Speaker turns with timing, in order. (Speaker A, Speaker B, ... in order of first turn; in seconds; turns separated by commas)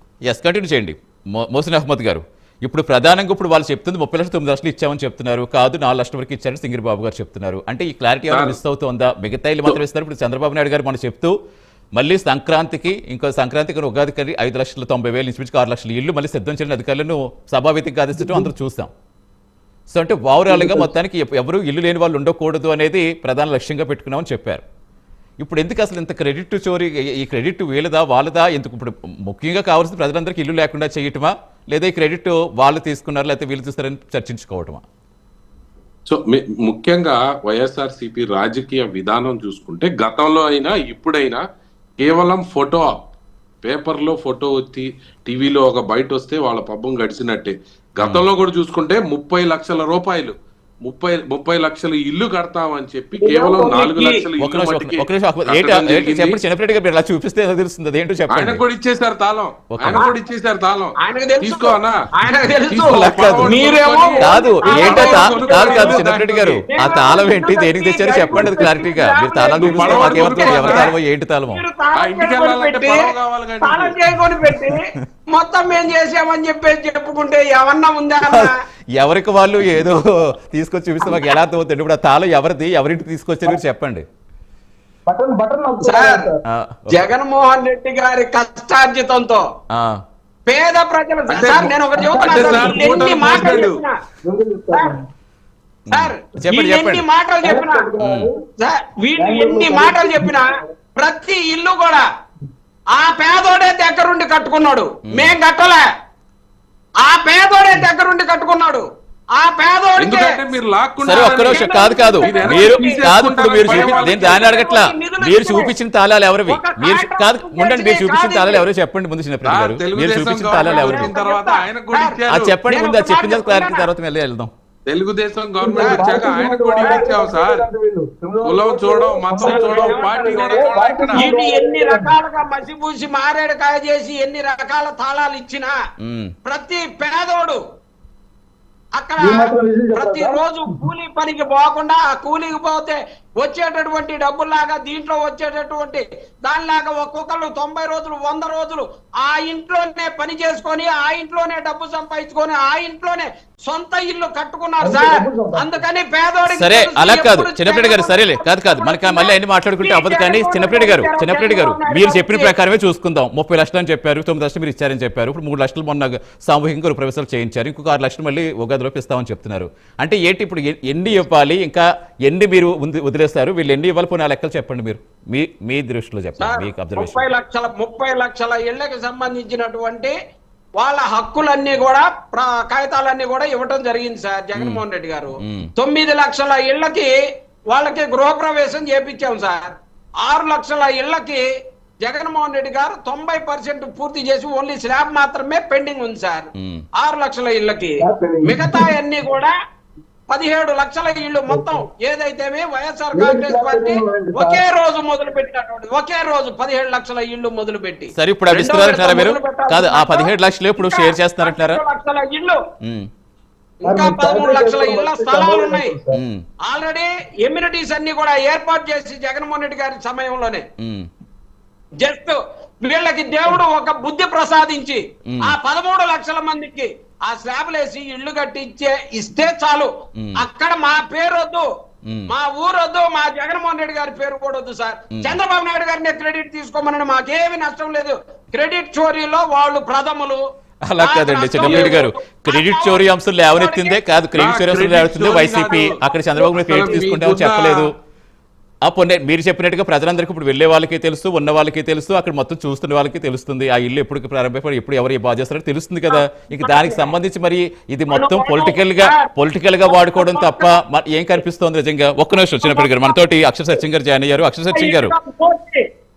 Speaker A: 0.2-11.3, Speaker B: 8.3-8.6, Speaker A: 11.9-18.9, Speaker C: 18.1-18.5, Speaker A: 19.9-24.6, Speaker C: 20.5-20.9, Speaker A: 25.4-34.8, Speaker B: 36.1-41.4, Speaker B: 42.0-43.0, Speaker B: 43.6-50.3, Speaker B: 50.9-56.4, Speaker D: 53.2-54.2, Speaker A: 54.4-58.6, Speaker B: 58.3-61.9, Speaker A: 59.8-60.0, Speaker D: 61.0-66.0, Speaker B: 62.7-67.0, Speaker A: 62.8-63.6, Speaker A: 64.1-71.6, Speaker D: 66.7-70.9, Speaker B: 69.5-70.9, Speaker D: 71.5-73.1, Speaker B: 72.0-74.0, Speaker D: 73.6-78.5, Speaker A: 78.2-84.0, Speaker C: 85.1-86.4, Speaker D: 85.8-86.2, Speaker A: 86.5-87.0, Speaker D: 86.9-89.5, Speaker A: 89.7-90.0, Speaker D: 90.5-94.0, Speaker B: 91.3-93.8, Speaker C: 91.6-93.7, Speaker C: 94.2-95.0, Speaker A: 95.9-97.0, Speaker D: 95.9-97.9, Speaker C: 97.4-98.4, Speaker A: 98.0-98.3, Speaker D: 98.6-102.0, Speaker C: 99.2-100.5, Speaker D: 102.9-105.8, Speaker A: 105.1-105.4, Speaker D: 107.0-108.8, Speaker D: 109.4-110.4, Speaker B: 110.0-114.4, Speaker A: 111.0-121.1, Speaker D: 111.1-113.0, Speaker D: 113.6-115.7, Speaker D: 116.5-118.7, Speaker B: 119.5-122.5, Speaker D: 120.6-122.2, Speaker A: 122.3-124.5, Speaker D: 122.7-123.9, Speaker B: 124.9-127.6, Speaker C: 125.6-132.2, Speaker D: 125.7-126.1, Speaker D: 126.8-127.0, Speaker B: 128.4-131.3, Speaker D: 129.4-130.4, Speaker D: 131.1-135.7, Speaker A: 136.0-136.3, Speaker D: 136.4-137.6, Speaker D: 139.0-162.5, Speaker C: 139.2-140.9, Speaker C: 154.8-155.8, Speaker A: 156.5-177.2, Speaker D: 176.4-180.2, Speaker D: 180.8-187.1, Speaker A: 184.6-184.8, Speaker A: 185.4-185.7, Speaker D: 187.7-191.4, Speaker D: 192.0-199.5, Speaker A: 196.6-196.8, Speaker C: 198.0-198.9, Speaker D: 200.3-212.6, Speaker C: 201.5-201.8, Speaker C: 203.1-204.6, Speaker A: 208.1-211.8, Speaker A: 212.8-213.1, Speaker D: 213.8-215.9, Speaker C: 213.8-216.2, Speaker A: 216.1-216.4, Speaker D: 216.7-220.7, Speaker A: 220.8-221.1, Speaker D: 222.0-231.7, Speaker A: 225.3-225.5, Speaker A: 230.2-230.4, Speaker D: 232.3-240.4, Speaker A: 240.8-247.9, Speaker D: 241.0-244.0, Speaker B: 241.6-242.0, Speaker B: 244.3-247.9, Speaker A: 248.8-265.1, Speaker D: 256.1-257.2, Speaker D: 258.1-259.3, Speaker D: 259.9-260.7, Speaker D: 262.6-263.2, Speaker D: 264.7-265.9